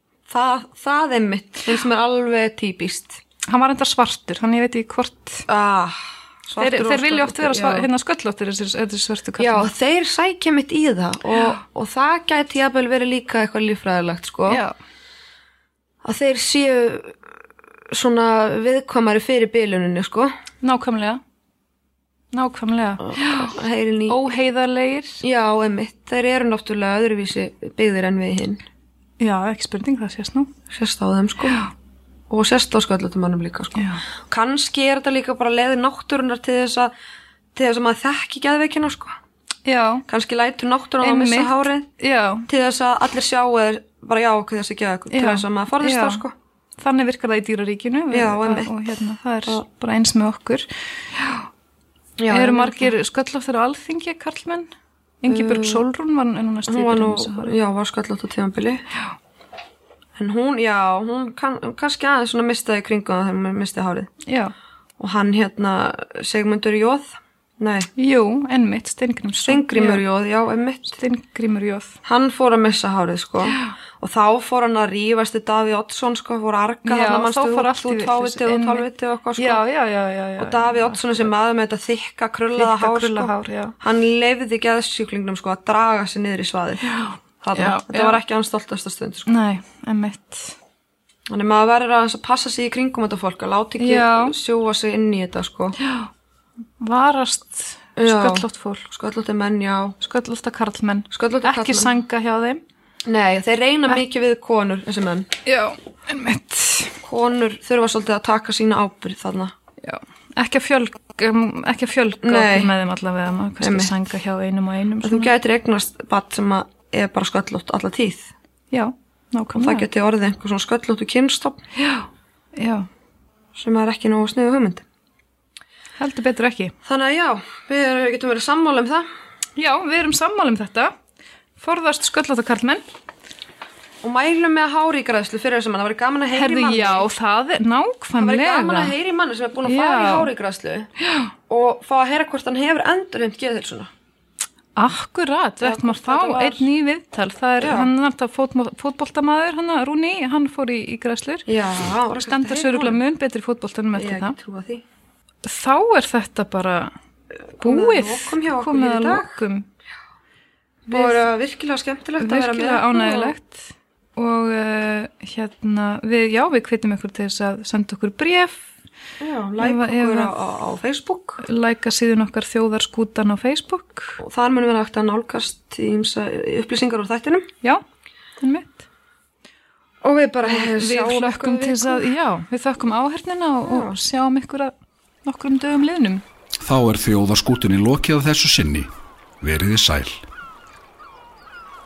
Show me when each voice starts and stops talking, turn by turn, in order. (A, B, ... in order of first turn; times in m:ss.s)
0:00.3-0:03.2 A
0:03.4-0:05.5 B
0:05.5-0:07.9 A
0:06.6-0:09.7 B
0:09.4-0:14.6 A
0:14.5-0:14.7 B
0:16.0-0:17.2 A
0:17.9-0:20.3 A
0:20.6-0:21.2 B
0:22.3-0:23.5 B
0:23.0-0:24.3 A
0:24.1-0:25.2 B
0:25.2-0:28.6 A
0:29.2-0:30.5 B
0:30.7-0:31.6 A
0:32.3-0:36.9 A
0:33.8-0:34.0 B
0:37.5-0:39.2 A
0:39.6-0:40.0 B
0:40.1-0:41.9 A
0:41.0-0:42.5 B
0:42.5-0:46.3 A
0:45.1-0:46.2 B
0:46.8-0:51.4 B
0:48.1-0:48.8 A
0:52.2-0:52.9 A
0:52.3-0:54.7 B
0:55.2-0:57.5 B
0:55.3-0:55.8 A
0:56.7-0:58.8 A
1:00.2-1:04.1 A
1:04.2-1:04.5 B
1:05.0-1:07.9 A
1:08.0-1:10.0 B
1:09.4-1:11.0 A
1:10.9-1:12.0 B
1:12.0-1:19.6 A
1:16.8-1:21.3 B
1:20.4-1:26.9 A
1:22.5-1:23.7 B
1:26.8-1:28.2 B
1:27.4-1:29.3 A
1:29.3-1:30.6 B
1:31.3-1:35.8 A
1:33.8-1:34.3 B
1:35.8-1:36.1 B
1:36.8-1:38.9 B
1:38.0-1:40.0 A
1:40.0-1:42.6 B
1:41.1-1:41.9 A
1:43.0-1:45.3 A
1:45.4-1:47.0 B
1:47.0-1:49.5 A
1:49.8-1:55.3 B
1:52.2-1:52.7 A
1:53.6-1:53.9 A
1:55.0-1:58.3 A
1:58.7-1:59.8 B
1:59.5-2:01.6 A
2:01.8-2:02.9 B
2:03.5-2:04.8 A
2:06.0-2:06.7 B
2:06.8-2:09.1 A
2:09.6-2:10.9 B
2:11.6-2:12.8 B
2:14.0-2:17.1 A
2:16.3-2:18.9 B
2:18.2-2:20.9 A
2:19.6-2:20.3 B
2:21.0-2:21.3 B
2:21.5-2:23.9 A
2:24.8-2:31.5 B
2:25.6-2:26.7 A
2:27.6-2:27.9 A
2:31.5-2:33.0 A
2:32.2-2:34.3 B
2:33.9-2:34.8 A
2:35.4-2:36.9 B
2:37.5-2:39.4 A
2:37.6-2:39.7 B
2:40.9-2:43.3 A
2:40.9-2:41.2 B
2:42.2-2:48.7 B
2:49.2-2:51.4 A
2:49.6-2:50.3 B
2:51.4-2:54.2 B
2:54.2-2:57.5 A
2:58.4-2:58.8 B
3:00.0-3:02.0 A
3:00.4-3:04.7 B
3:03.6-3:04.0 A
3:05.2-3:06.2 B
3:06.6-3:08.9 C
3:09.4-3:10.2 C